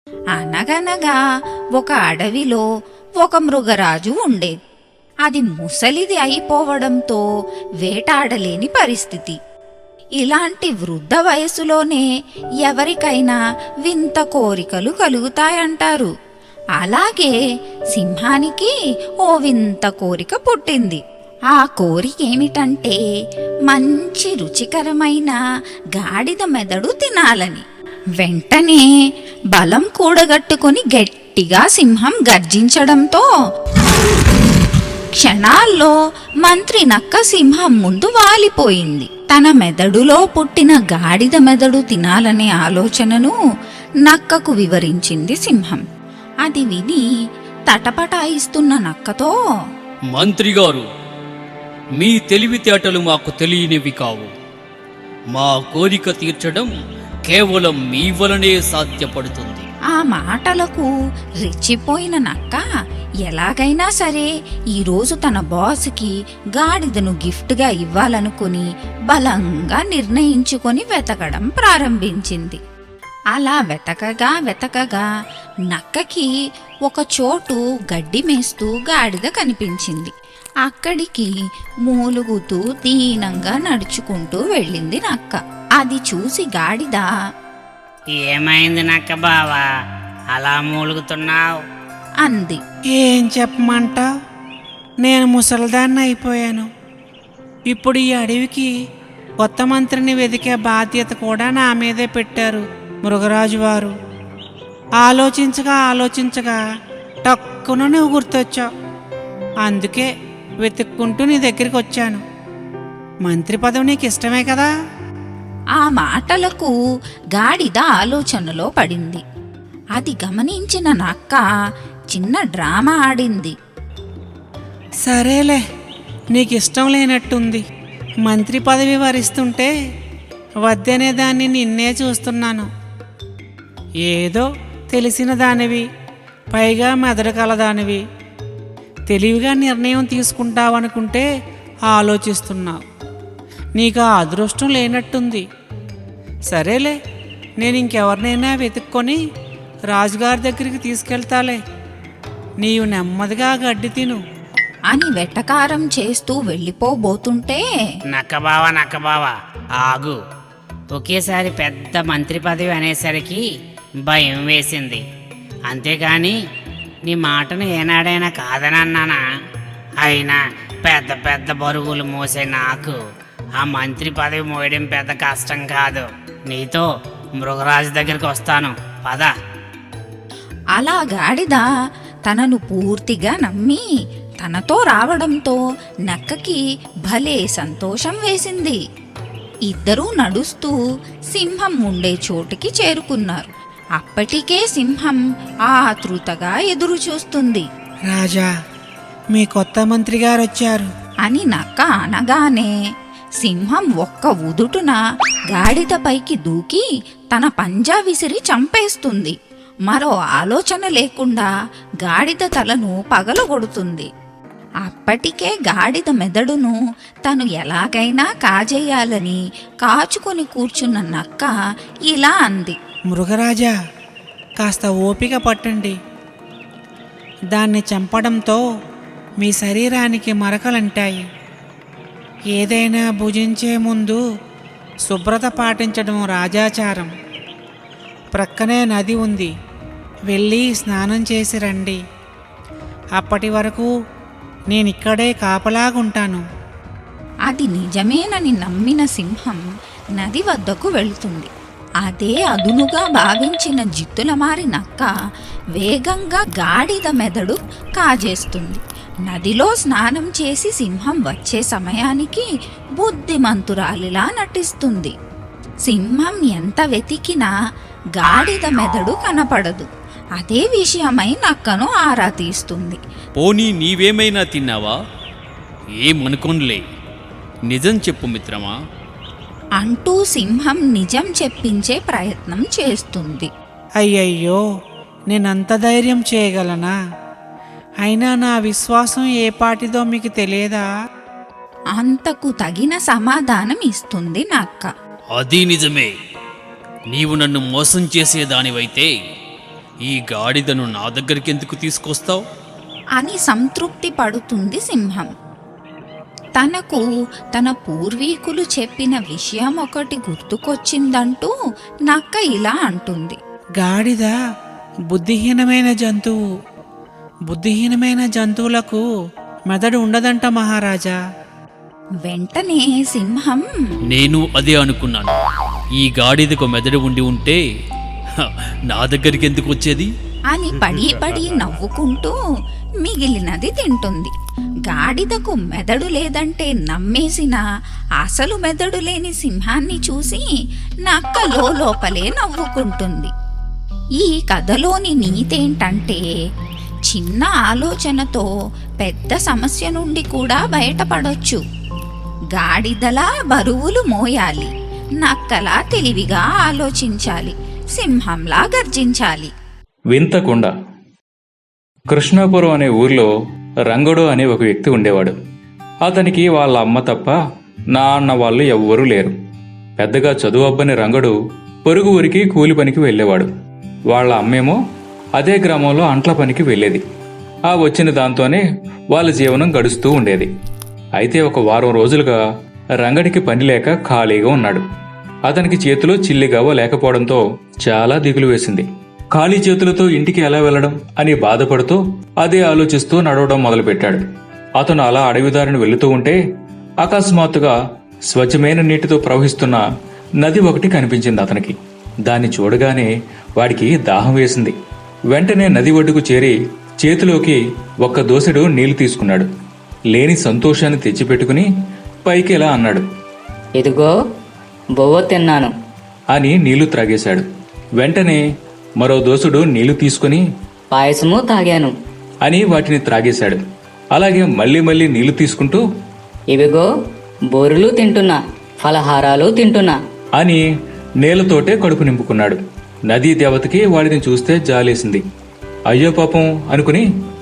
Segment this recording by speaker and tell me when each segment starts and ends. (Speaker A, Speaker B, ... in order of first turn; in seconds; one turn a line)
Speaker A: 0.4-1.2
Speaker A: 1.8-2.6
Speaker A: 3.2-4.5
Speaker A: 5.3-7.2
Speaker A: 7.8-9.4
Speaker A: 10.2-12.0
Speaker A: 12.6-16.1
Speaker A: 16.8-17.3
Speaker A: 17.9-18.7
Speaker A: 19.2-21.0
Speaker A: 21.5-23.0
Speaker A: 23.7-25.4
Speaker A: 26.0-27.6
Speaker A: 28.2-28.9
Speaker A: 29.5-33.2
Speaker A: 35.1-43.3
Speaker A: 44.0-45.8
Speaker A: 46.4-47.0
Speaker A: 47.7-49.3
Speaker B: 50.1-50.9
Speaker B: 52.0-54.3
Speaker B: 55.3-56.7
Speaker B: 57.2-59.7
Speaker A: 59.9-60.9
Speaker A: 61.4-62.6
Speaker A: 63.2-72.6
Speaker A: 73.3-75.0
Speaker A: 75.7-76.3
Speaker A: 76.9-80.1
Speaker A: 80.6-81.3
Speaker A: 81.8-87.1
Speaker C: 88.1-89.6
Speaker C: 90.3-91.5
Speaker A: 92.2-92.6
Speaker D: 92.9-94.0
Speaker D: 95.0-96.7
Speaker D: 97.7-98.7
Speaker D: 99.4-103.9
Speaker D: 105.0-106.6
Speaker D: 107.2-108.7
Speaker D: 109.7-110.1
Speaker D: 110.6-112.2
Speaker D: 113.2-114.7
Speaker A: 115.8-116.7
Speaker A: 117.3-119.2
Speaker A: 120.0-121.4
Speaker A: 122.1-123.5
Speaker D: 125.0-125.6
Speaker D: 126.3-127.6
Speaker D: 128.2-129.7
Speaker D: 130.6-132.7
Speaker D: 134.1-135.8
Speaker D: 136.5-138.0
Speaker D: 139.1-141.2
Speaker D: 141.9-142.8
Speaker D: 143.8-145.4
Speaker D: 146.5-146.9
Speaker D: 147.6-149.2
Speaker D: 149.9-151.6
Speaker D: 152.6-154.2
Speaker A: 154.9-157.6
Speaker C: 158.1-160.2
Speaker C: 160.9-163.4
Speaker C: 164.0-165.0
Speaker C: 165.7-166.3
Speaker C: 167.1-169.2
Speaker C: 170.0-173.0
Speaker C: 173.6-176.9
Speaker C: 177.4-179.3
Speaker A: 180.7-181.6
Speaker A: 182.2-183.8
Speaker A: 184.4-188.8
Speaker A: 189.7-190.7
Speaker A: 191.3-197.7
Speaker D: 198.1-198.5
Speaker D: 199.3-200.9
Speaker A: 201.2-202.7
Speaker A: 203.4-205.0
Speaker A: 205.5-209.3
Speaker A: 209.9-211.5
Speaker A: 212.0-214.1
Speaker A: 214.8-216.7
Speaker A: 217.3-221.5
Speaker A: 222.1-222.8
Speaker D: 223.1-223.7
Speaker D: 224.6-225.9
Speaker D: 227.5-228.6
Speaker D: 229.4-231.2
Speaker D: 232.5-234.2
Speaker D: 235.1-237.1
Speaker D: 238.3-239.5
Speaker D: 240.3-242.0
Speaker D: 243.2-243.9
Speaker D: 244.7-246.4
Speaker A: 247.5-249.6
Speaker A: 250.2-251.5
Speaker A: 252.0-255.1
Speaker A: 255.7-262.4
Speaker A: 263.0-265.1
Speaker A: 265.9-267.5
Speaker A: 268.2-269.9
Speaker A: 270.4-273.0
Speaker B: 273.4-274.9
Speaker B: 276.0-276.8
Speaker B: 277.7-278.7
Speaker A: 279.8-283.5
Speaker D: 284.0-284.6
Speaker D: 285.3-286.9
Speaker D: 288.0-290.9
Speaker A: 291.9-294.9
Speaker B: 295.3-296.1
Speaker B: 297.1-299.1
Speaker B: 300.0-302.4
Speaker A: 303.2-305.3
Speaker A: 306.6-307.0
Speaker A: 307.5-311.5
Speaker A: 312.1-313.4
Speaker D: 313.8-314.3
Speaker D: 315.1-316.4
Speaker D: 317.5-319.0
Speaker D: 319.7-321.2
Speaker A: 322.2-323.7
Speaker B: 324.1-325.4
Speaker B: 326.0-327.6
Speaker B: 328.4-330.1
Speaker A: 330.5-332.3
Speaker A: 333.0-334.3
Speaker A: 334.9-337.6
Speaker A: 338.2-340.5
Speaker A: 341.1-343.3
Speaker A: 344.2-346.2
Speaker A: 347.1-348.5
Speaker A: 349.0-351.6
Speaker A: 352.5-354.7
Speaker A: 355.2-359.5
Speaker E: 360.1-360.7
Speaker E: 362.1-363.3
Speaker E: 363.9-365.3
Speaker E: 366.0-367.4
Speaker E: 367.9-369.3
Speaker E: 370.0-371.3
Speaker E: 371.8-373.5
Speaker E: 374.1-374.8
Speaker E: 375.4-377.0
Speaker E: 377.7-380.5
Speaker E: 381.2-382.4
Speaker E: 383.0-384.8
Speaker E: 385.4-394.2
Speaker E: 394.8-396.4
Speaker E: 397.0-397.7
Speaker E: 398.3-399.8
Speaker E: 400.4-401.7
Speaker E: 402.2-404.7
Speaker E: 405.3-409.5
Speaker E: 410.1-411.6
Speaker E: 412.2-413.0
Speaker F: 413.8-414.1
Speaker F: 414.9-415.7
Speaker E: 416.3-417.4
Speaker E: 418.0-418.4
Speaker E: 419.0-420.4
Speaker F: 420.9-421.9
Speaker E: 422.4-423.6
Speaker E: 424.1-425.8
Speaker F: 426.5-426.9
Speaker F: 427.5-429.9
Speaker E: 430.4-430.6
Speaker E: 431.2-435.2
Speaker E: 435.9-437.0